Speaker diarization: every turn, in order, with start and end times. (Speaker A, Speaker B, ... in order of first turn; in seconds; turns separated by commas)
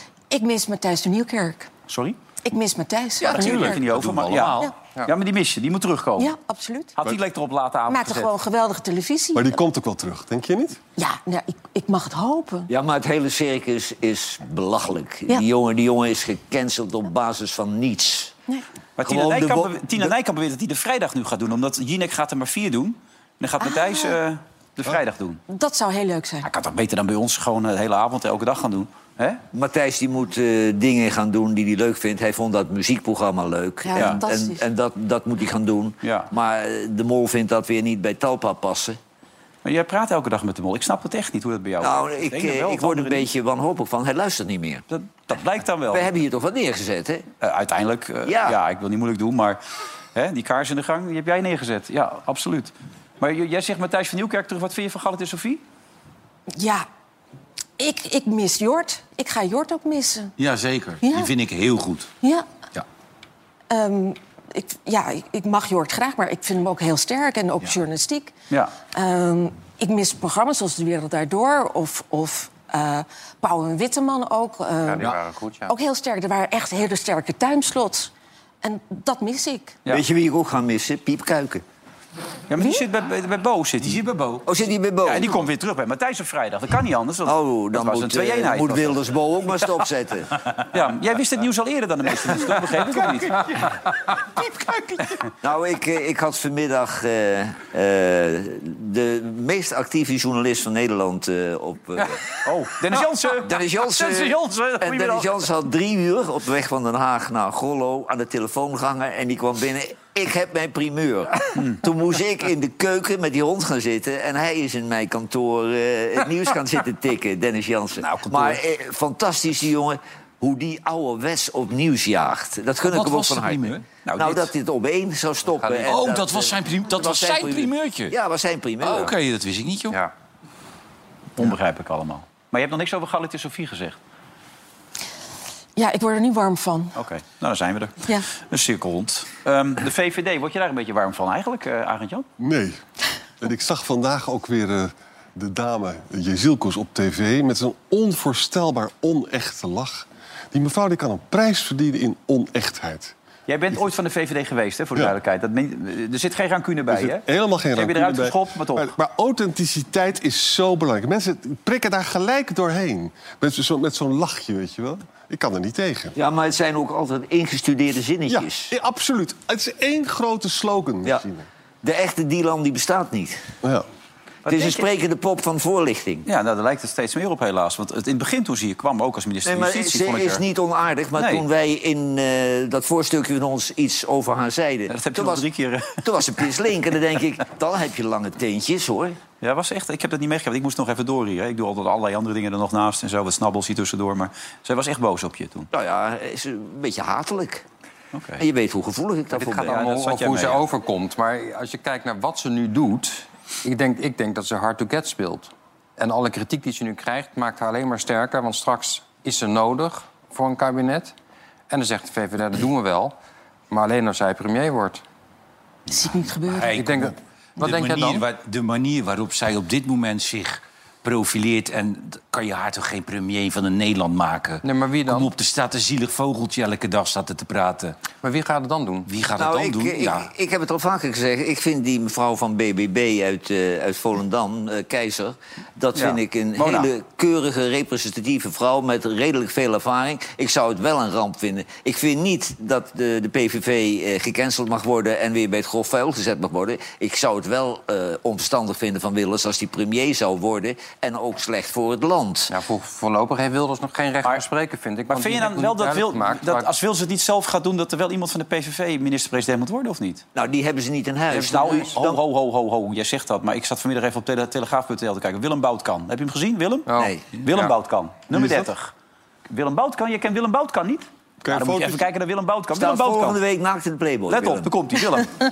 Speaker A: 0.3-1.7, Speaker B: 1.9-2.2, Speaker A: 2.4-3.8, Speaker C: 3.2-4.7, Speaker B: 3.2-6.3, Speaker A: 6.2-6.9, Speaker B: 7.0-8.3, Speaker A: 7.9-9.6, Speaker D: 9.3-10.8, Speaker A: 11.0-12.7, Speaker E: 12.7-18.3, Speaker B: 19.0-25.4, Speaker E: 19.0-20.1, Speaker A: 23.6-24.2, Speaker A: 25.5-26.5, Speaker B: 26.4-29.4, Speaker E: 29.5-39.0, Speaker A: 33.8-34.6, Speaker B: 36.0-36.3, Speaker B: 39.6-43.3, Speaker E: 41.8-44.8, Speaker B: 44.9-46.1, Speaker E: 45.9-47.3, Speaker B: 47.4-49.6, Speaker E: 48.2-48.6, Speaker B: 50.1-55.6, Speaker A: 56.5-56.9, Speaker A: 57.8-60.4, Speaker C: 60.4-62.1, Speaker A: 61.0-61.3, Speaker A: 63.7-68.3, Speaker A: 68.9-75.1, Speaker F: 74.9-75.7, Speaker A: 75.7-78.1, Speaker A: 78.6-79.8, Speaker E: 79.9-81.6, Speaker B: 82.5-84.0, Speaker C: 83.8-84.4, Speaker E: 84.5-85.4, Speaker B: 85.0-89.0, Speaker E: 87.2-90.3, Speaker B: 90.7-93.5, Speaker C: 94.4-95.1, Speaker E: 95.4-102.2, Speaker B: 102.4-105.5, Speaker E: 103.4-129.1, Speaker C: 118.0-118.6, Speaker C: 122.8-123.8, Speaker B: 124.0-124.5, Speaker F: 125.6-125.9, Speaker C: 125.8-128.1, Speaker C: 128.8-130.0, Speaker B: 131.4-134.0, Speaker A: 135.8-136.9, Speaker B: 137.0-142.2, Speaker D: 142.4-142.8, Speaker D: 143.4-153.1, Speaker B: 153.5-157.2, Speaker D: 156.9-166.2, Speaker B: 157.8-158.9, Speaker E: 166.2-168.7, Speaker D: 168.3-171.5, Speaker E: 171.8-173.4, Speaker B: 174.5-174.9, Speaker E: 174.5-176.3, Speaker B: 176.2-180.4, Speaker E: 179.4-185.4, Speaker B: 181.2-181.4, Speaker B: 184.9-186.0, Speaker E: 186.0-189.2, Speaker B: 189.4-195.7, Speaker E: 195.7-197.6, Speaker B: 198.1-198.4, Speaker E: 198.4-199.8, Speaker F: 199.3-211.1, Speaker B: 199.6-200.6, Speaker F: 211.7-213.1, Speaker F: 213.7-215.0, Speaker A: 215.9-216.8, Speaker C: 216.5-228.0, Speaker F: 216.7-218.2, Speaker F: 224.6-225.3, Speaker F: 228.2-229.1, Speaker C: 229.1-230.3, Speaker E: 229.4-252.5, Speaker B: 235.9-236.9, Speaker F: 252.5-256.7, Speaker B: 255.1-260.2, Speaker E: 260.4-262.2, Speaker B: 261.3-268.9, Speaker F: 266.9-267.7, Speaker E: 267.0-267.2, Speaker D: 268.3-268.7, Speaker B: 269.5-273.4, Speaker D: 271.4-272.0, Speaker E: 272.7-274.7, Speaker B: 274.3-275.4